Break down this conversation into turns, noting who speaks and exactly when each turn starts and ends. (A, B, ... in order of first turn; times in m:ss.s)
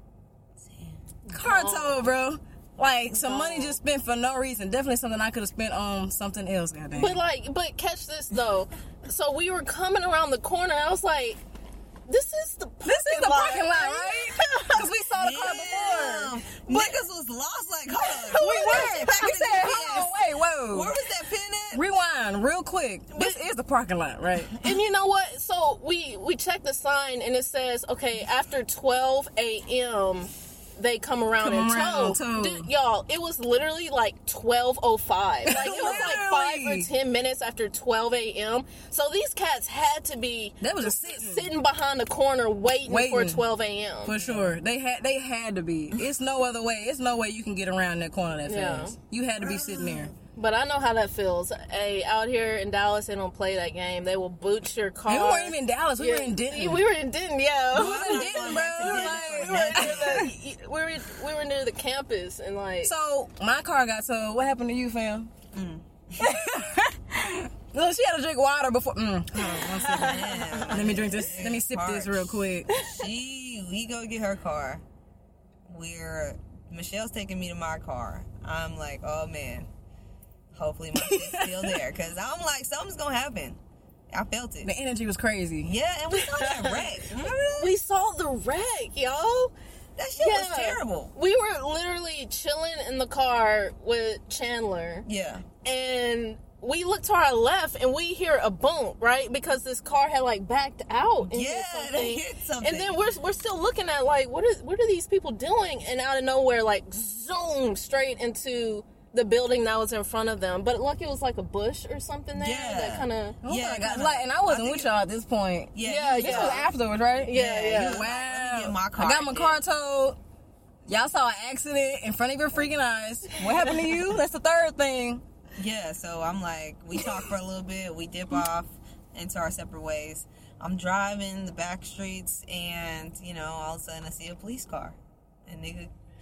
0:00.6-0:01.0 A
0:01.3-0:02.1 B
0:01.3-0:07.2 C
0:03.1-0:03.8 B
0:06.9-0:11.4 B
0:12.1-0:14.9 B
0:12.8-0:16.3 C
0:15.2-0:21.8 A
0:16.7-0:17.0 B
0:18.0-0:19.5 B
0:18.4-0:20.9 C
0:21.7-0:24.5 C
0:23.1-0:23.4 B
0:24.6-0:44.1 B
0:31.4-0:32.7 C
0:35.4-0:36.9 C
0:40.6-0:41.5 C
0:42.9-0:43.4 C
0:44.0-0:50.1 C
0:44.2-0:44.6 A
0:48.5-0:49.0 B
0:49.4-0:50.1 A
0:50.4-1:02.9 B
0:55.1-0:56.8 C
0:57.7-1:00.3 A
0:57.7-1:00.3 C
1:02.8-1:05.3 C
1:05.5-1:06.3 A
1:06.2-1:12.7 C
1:09.6-1:10.8 B
1:10.0-1:14.8 A
1:12.7-1:13.1 B
1:15.7-1:19.7 A
1:20.5-1:24.7 A
1:21.0-1:21.7 C
1:24.6-1:25.7 C
1:25.6-1:27.7 A
1:26.1-1:26.9 B
1:27.6-1:29.5 B
1:30.0-1:31.1 A
1:30.2-1:35.0 B
1:35.0-1:35.4 A
1:35.6-1:53.4 B
1:41.2-1:43.1 A
1:52.3-1:54.9 A
1:53.4-2:00.2 C
1:55.7-1:56.6 A
1:55.8-1:56.7 B
1:57.2-1:58.0 B
1:57.3-1:59.6 A
2:00.9-2:05.2 C
2:05.6-2:15.9 A